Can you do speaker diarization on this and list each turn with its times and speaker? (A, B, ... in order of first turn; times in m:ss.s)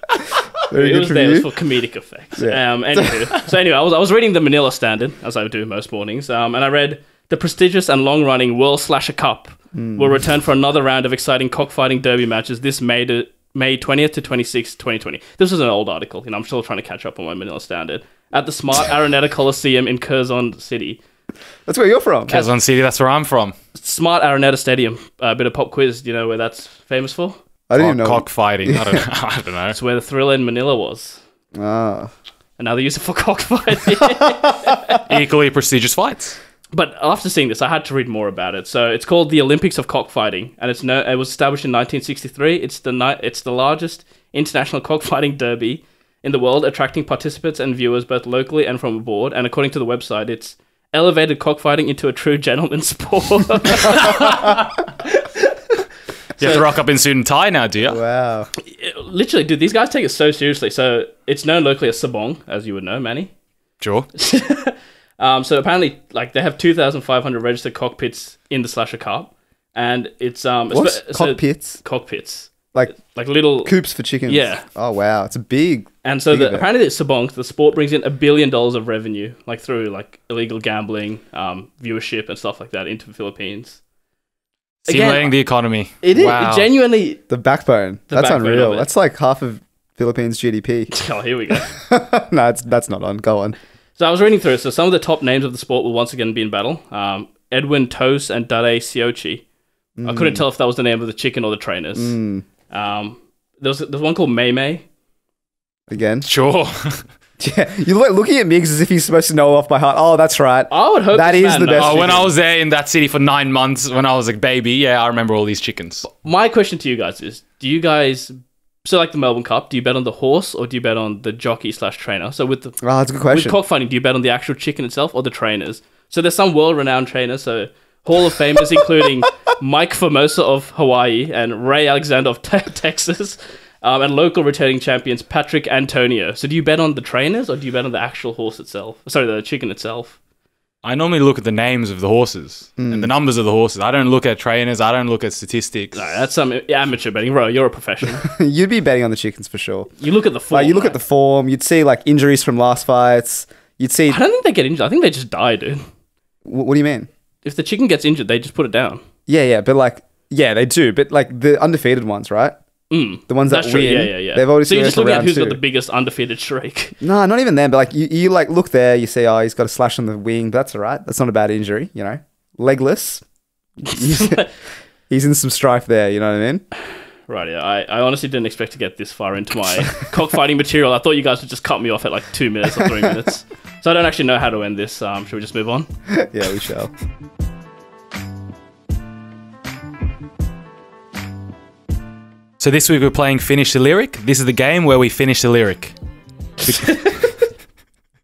0:00.7-0:01.5 A
0:00.7-0:21.0 B
0:02.4-0:03.2 A
0:09.7-0:10.2 A
0:21.6-0:22.3 A
0:22.3-0:23.5 C
0:23.7-0:27.4 B
0:27.7-0:29.0 A
0:27.7-0:29.8 C
0:29.7-0:31.2 B
0:31.5-0:32.1 A
0:32.6-0:35.0 B
0:35.0-0:36.4 C
0:36.7-0:55.8 B
0:56.4-0:58.0 C
0:57.8-0:58.5 A
0:58.6-1:03.3 B
1:03.8-1:04.1 C
1:04.2-1:13.7 B
1:10.7-1:11.8 A
1:13.6-1:16.6 A
1:14.2-1:14.6 B
1:16.0-1:23.8 B
1:24.9-1:25.3 B
1:24.9-1:26.7 C
1:26.0-1:27.2 B
1:27.3-1:30.9 A
1:28.1-1:28.9 B
1:30.9-1:31.7 B
1:31.7-1:33.6 A
1:34.0-1:39.4 B
1:40.0-1:40.4 A
1:40.0-1:42.2 B
1:41.9-1:42.4 A
1:42.7-1:44.8 B
1:45.9-1:46.2 A
1:46.2-1:47.0 C
1:47.4-1:52.2 A
1:50.7-1:52.3 B
1:51.8-1:56.0 C
1:56.0-2:02.8 B
2:02.8-2:03.6 A
2:03.3-2:20.2 B
2:20.8-2:26.1 C
2:22.8-2:23.1 A
2:25.9-2:28.2 B
2:28.2-2:29.9 A
2:30.0-2:31.0 B
2:30.5-2:34.2 A
2:34.1-2:35.8 B
2:36.4-2:37.1 A
2:37.4-2:39.0 B
2:39.3-2:42.6 A
2:42.9-2:47.0 B
2:43.3-2:45.6 A
2:47.0-2:53.2 A
2:53.8-2:54.5 A
2:54.0-2:54.4 B
2:55.1-2:56.6 A
2:57.3-3:05.9 B
3:06.2-3:06.9 A
3:12.6-3:15.9 C
3:16.6-3:17.4 B